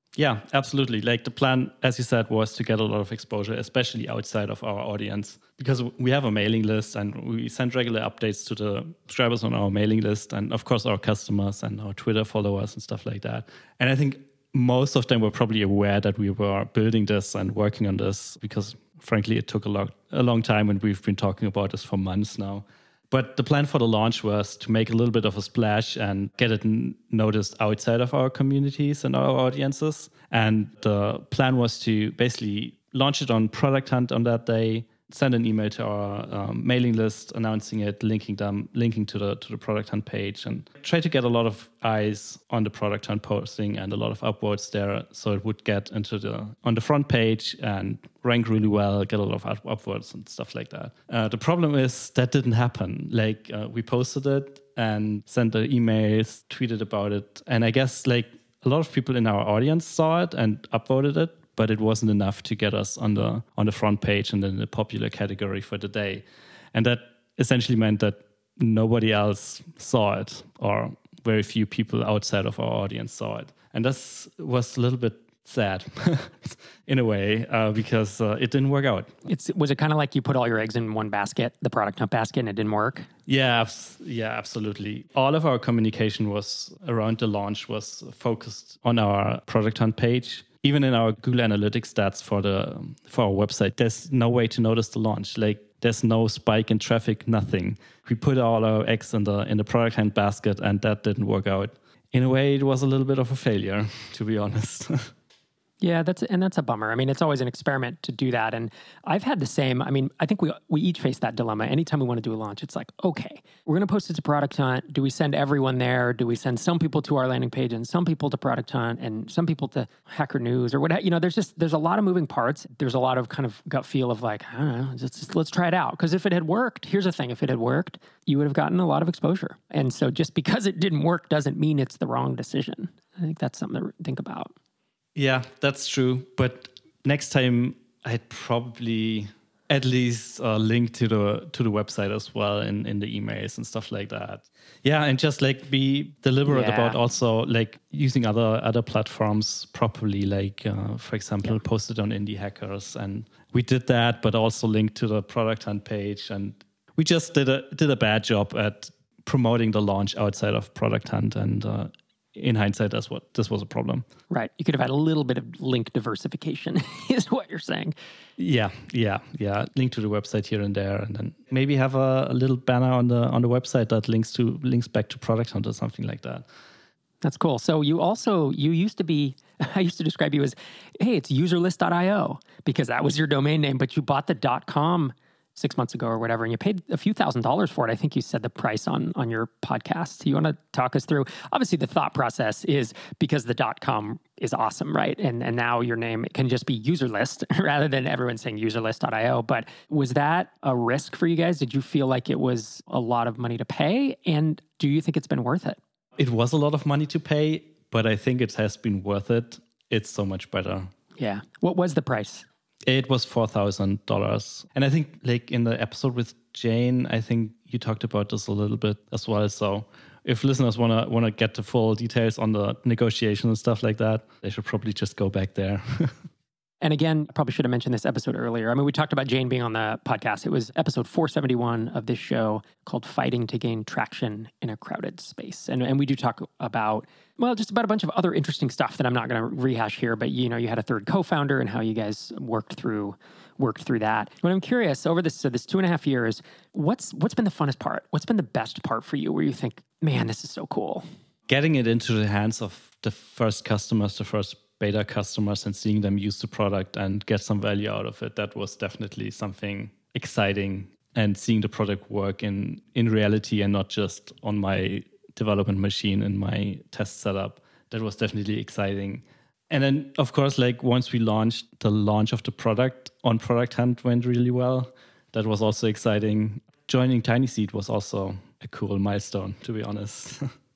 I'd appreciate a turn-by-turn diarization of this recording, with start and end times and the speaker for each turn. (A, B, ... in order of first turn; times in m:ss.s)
0:00.2-1:19.1 A
1:19.2-1:23.1 B
1:23.3-1:45.1 A
1:45.8-2:14.5 B
2:15.1-2:44.0 A
2:26.5-2:27.0 B
2:44.3-2:48.0 B
2:48.4-2:56.4 A
2:57.2-3:25.8 B
3:26.2-3:30.9 A
3:31.2-3:32.5 B
3:32.8-3:46.1 A
3:46.8-4:11.0 B
4:11.5-4:40.5 A